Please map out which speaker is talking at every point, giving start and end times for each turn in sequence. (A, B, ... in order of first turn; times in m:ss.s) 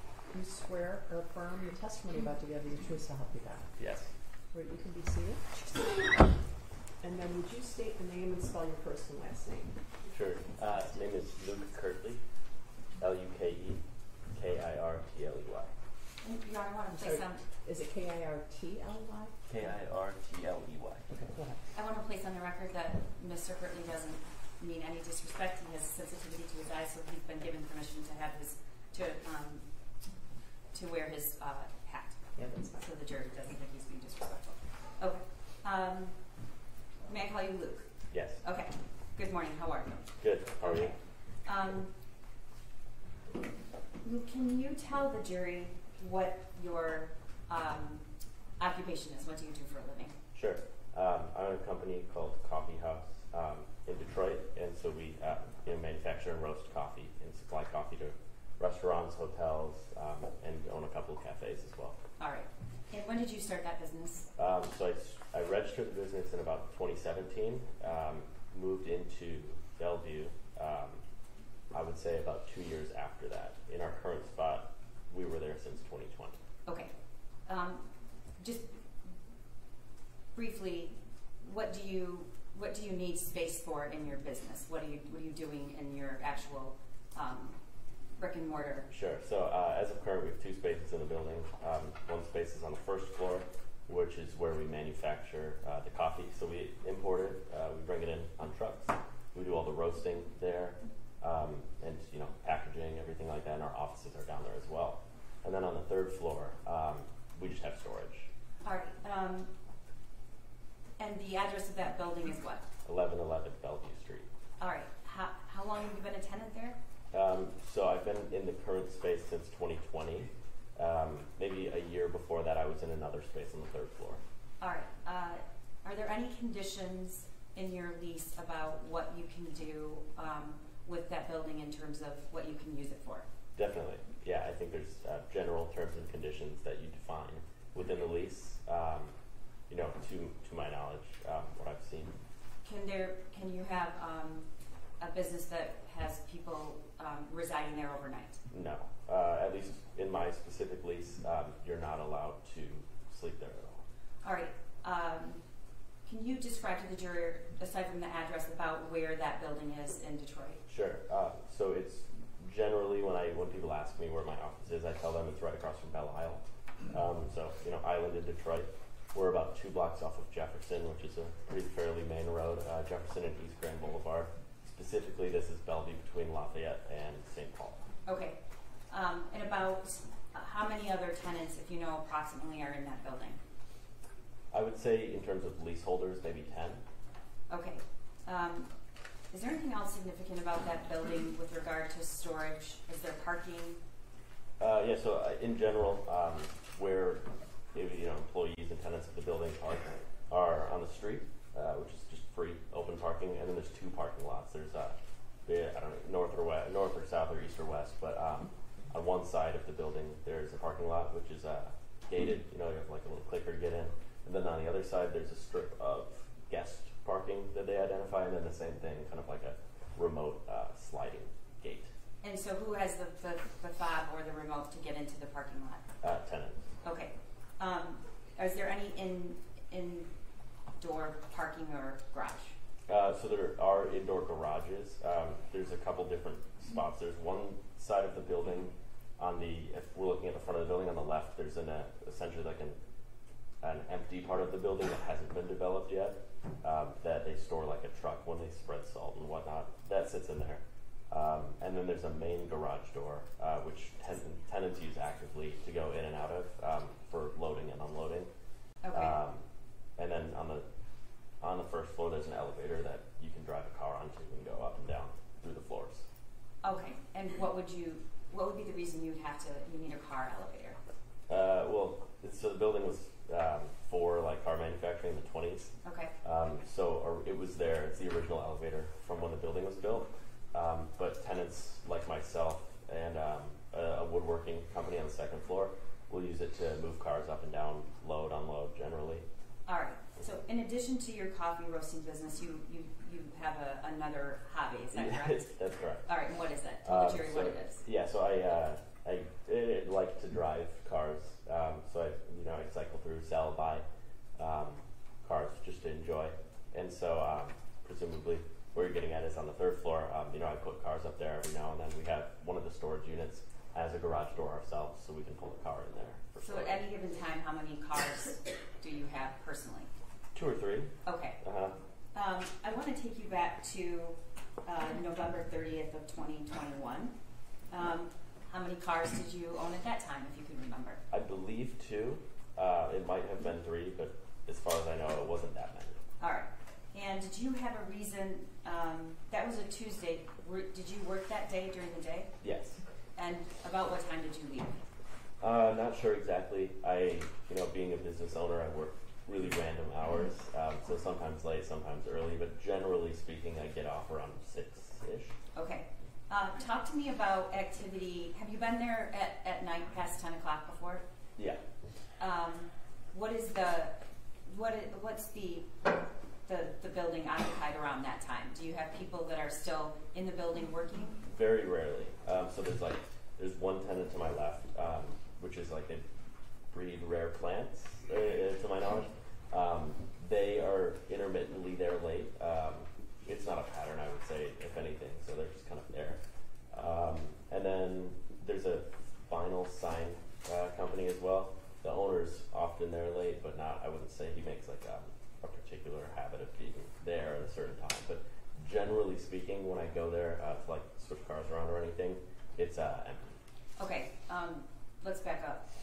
0:00.3-0:03.8 A
0:03.8-0:04.1 B
0:04.5-0:06.4 A
0:07.0-0:09.8 A
0:10.1-0:12.2 B
0:13.0-0:13.8 B
0:14.3-0:15.7 B
0:16.2-0:17.4 C
0:16.9-0:19.6 A
0:19.5-0:21.2 B
0:21.2-0:21.6 A
0:21.7-0:29.7 C
0:30.7-0:32.2 C
0:32.4-0:32.8 A
0:32.8-0:36.2 C
0:37.1-0:41.9 C
0:38.1-0:38.4 B
0:40.2-0:40.9 B
0:44.0-0:48.0 C
0:48.6-0:50.2 C
0:50.3-1:02.0 B
1:02.2-1:04.3 C
1:04.4-1:11.0 B
1:11.7-1:16.4 B
1:16.7-1:16.9 C
1:17.4-1:18.8 C
1:20.4-1:27.6 C
1:28.2-1:28.9 C
1:28.9-1:48.3 B
1:48.6-1:49.5 C
1:51.0-1:52.7 C
1:52.9-1:54.3 B
1:54.6-1:56.8 C
1:57.1-2:04.2 B
2:04.6-2:13.3 C
2:13.6-2:19.1 B
2:19.7-2:22.2 B
2:22.6-2:24.5 C
2:25.0-2:28.4 C
2:28.5-2:33.8 B
2:34.2-2:35.4 C
2:36.1-2:40.6 C
2:40.7-2:57.8 B
2:58.1-2:58.4 C
2:58.9-3:03.4 C
3:04.5-3:06.8 B
3:07.5-3:08.7 C
3:09.3-3:13.8 C
3:14.6-3:41.9 B
3:42.2-3:45.8 C
3:46.0-3:46.7 B
3:46.8-3:50.1 C
3:50.8-3:52.6 C
3:52.9-4:02.8 B
4:03.6-4:18.3 B
4:18.8-4:19.2 C
4:18.9-4:19.4 B
4:20.0-4:20.6 B
4:21.4-4:26.1 B
4:26.6-4:30.8 C
4:31.3-4:49.2 B
4:35.8-4:36.1 C
4:49.7-4:55.5 C
4:54.9-4:56.1 B
4:56.1-4:57.8 C
4:56.8-5:03.8 B
5:04.4-5:16.8 B
5:16.4-5:19.9 C
5:20.3-5:21.8 B
5:21.0-5:21.4 C
5:22.1-5:27.2 C
5:27.7-5:31.0 C
5:31.1-5:36.0 B
5:36.2-5:42.3 C
5:42.4-5:42.8 B
5:43.2-5:44.8 C
5:45.4-5:55.4 B
5:55.5-6:01.0 C
6:02.2-6:05.8 C
6:06.5-6:11.2 C
6:11.3-6:16.1 B
6:16.7-6:26.2 B
6:26.7-6:43.4 B
6:43.8-6:45.6 C